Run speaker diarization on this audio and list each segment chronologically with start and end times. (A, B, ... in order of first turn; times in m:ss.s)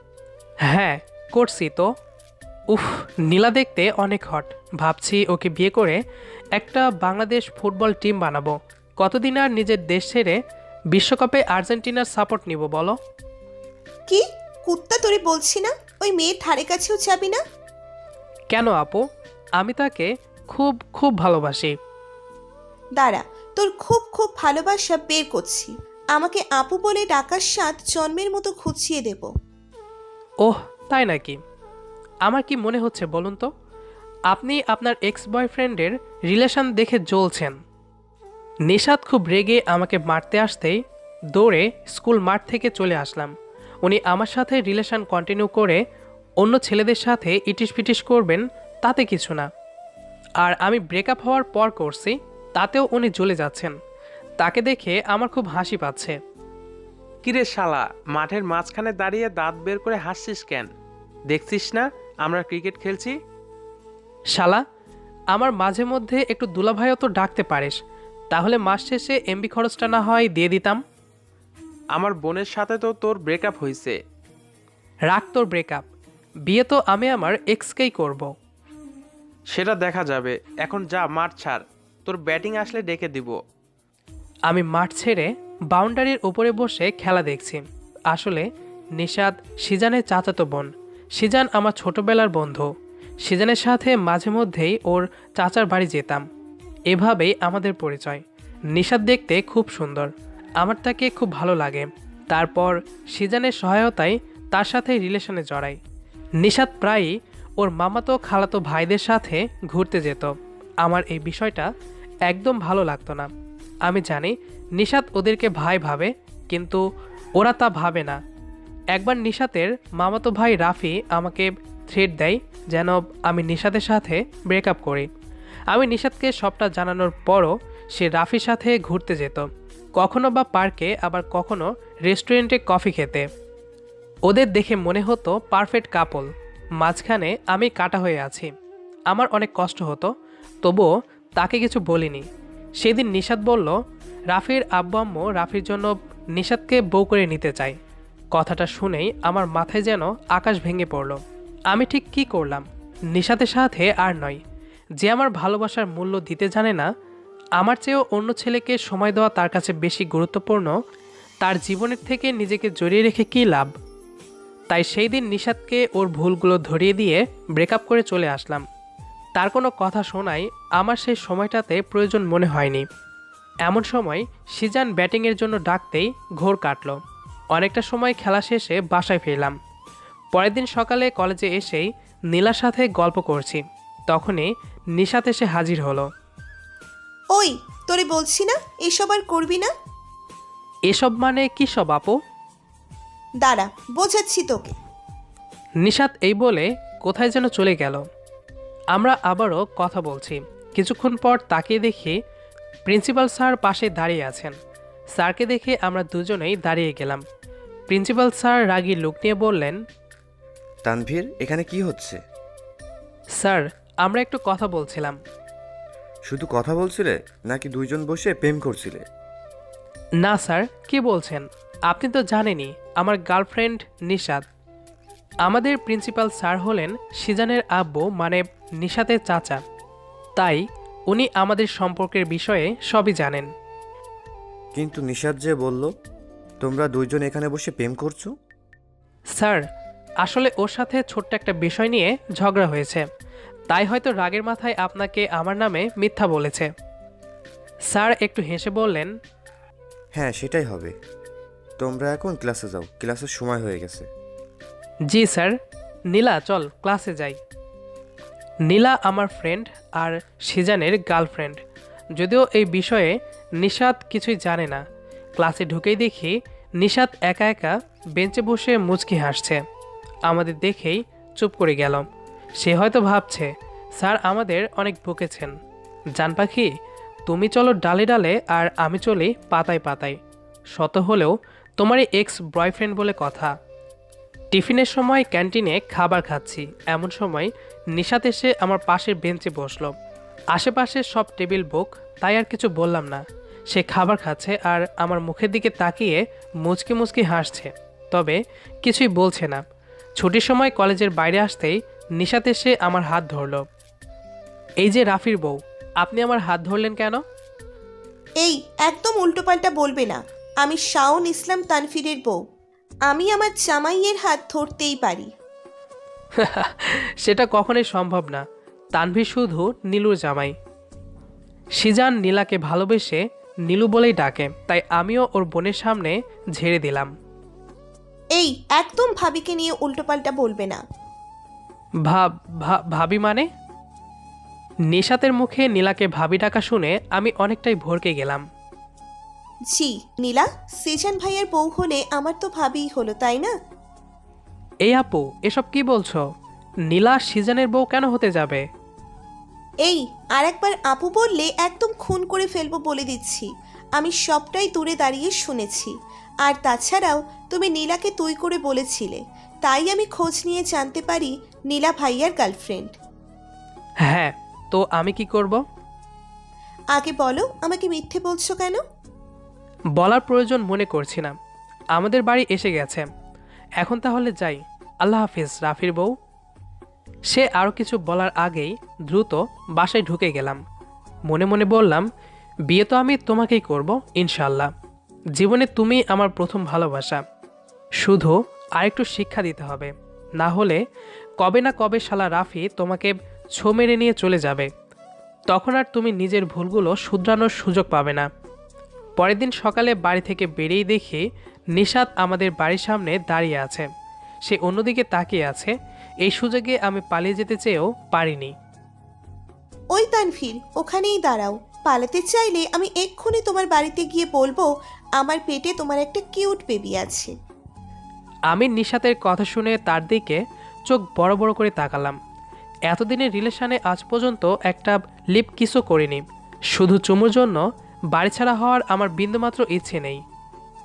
0:00.7-0:01.9 A
0:02.7-0:06.0 A
0:06.6-0:10.4 A
0:10.9-0:13.0 A
0:14.1-0:17.4 B
0:18.5-0:19.0 A
0:19.6-0:21.8 A
0:23.0-0:29.3 B
0:30.4-0:31.4 A
0:32.2-0:33.5 A
0:34.3-0:37.6 A
0:38.7-0:40.8 A
0:41.3-0:43.3 A
0:43.8-0:45.8 A
0:46.4-0:49.5 A
0:50.4-0:53.8 A
0:54.4-0:56.2 A
0:57.2-1:00.7 C
1:01.3-1:03.1 C
1:04.3-1:04.6 A
1:05.3-1:07.8 A
1:08.3-1:10.8 A
1:12.0-1:14.0 C
1:15.1-1:15.8 A
1:16.5-1:18.3 A
1:19.5-1:23.4 C
1:24.5-1:28.4 A
1:29.0-1:32.7 A
1:33.2-1:36.3 A
1:36.9-1:45.8 A
1:46.4-1:51.7 A
1:52.3-1:53.3 A
1:53.9-1:56.8 A
1:57.4-1:58.2 A
1:58.9-2:05.1 A
2:05.7-2:13.3 A
2:14.3-2:16.3 A
2:16.8-2:18.5 A
2:19.1-2:20.1 A
2:20.6-2:22.3 A
2:22.8-2:23.7 A
2:24.3-2:27.8 A
2:28.3-2:34.4 A
2:35.0-2:36.9 A
2:37.6-2:40.7 A
2:41.4-2:43.7 A
2:44.7-2:48.6 A
2:49.4-2:52.8 A
2:53.6-2:57.0 A
2:57.5-2:59.6 A
3:00.3-3:06.1 A
3:07.3-3:09.7 B
3:10.9-3:12.2 A
3:13.4-3:14.7 B
3:15.8-3:18.0 A
3:18.9-3:22.2 A
3:22.9-3:24.5 A
3:25.2-3:27.2 A
3:27.9-3:29.8 A
3:30.8-3:32.2 D
3:33.4-3:35.2 A
3:36.2-3:39.1 D
3:40.2-3:44.4 A
3:45.4-3:49.6 A
3:50.4-3:53.5 A
3:54.7-3:55.9 D
3:56.6-3:58.4 D
3:59.4-3:59.6 A
4:00.2-4:03.1 A
4:03.7-4:06.7 A
4:07.9-4:09.1 A
4:10.1-4:11.0 D
4:11.8-4:14.1 D
4:15.1-4:15.5 A
4:16.1-4:17.4 A
4:18.7-4:21.6 A
4:22.2-4:24.8 A
4:25.4-4:29.6 A
4:30.3-4:32.0 A
4:32.6-4:35.5 A
4:36.2-4:36.7 A
4:37.3-4:40.2 A
4:40.7-4:43.5 A
4:44.5-4:50.0 A
4:50.5-4:59.6 A
5:00.2-5:03.7 A
5:04.8-5:07.2 A
5:08.4-5:12.4 B
5:13.1-5:15.3 B
5:16.4-5:18.4 A
5:18.9-5:20.5 A
5:21.8-5:27.1 A
5:28.4-5:30.8 B
5:32.1-5:33.5 A
5:34.9-5:38.4 A
5:39.7-5:43.5 B
5:44.8-5:46.2 A
5:46.9-5:48.6 A
5:49.8-6:03.0 B
6:04.1-6:05.6 A
6:06.9-6:08.8 B
6:10.0-6:11.4 A
6:12.0-6:13.1 A
6:13.8-6:16.1 A
6:17.3-6:20.6 A
6:21.3-6:22.1 A
6:22.7-6:24.7 A
6:25.4-6:27.2 A
6:28.0-6:30.8 A
6:31.4-6:34.7 A
6:35.5-6:38.3 A
6:39.2-6:41.2 A
6:41.8-6:43.9 A
6:44.4-6:45.7 A
6:46.2-6:48.5 A
6:49.9-6:57.3 B
6:58.5-7:02.2 A
7:02.9-7:10.2 A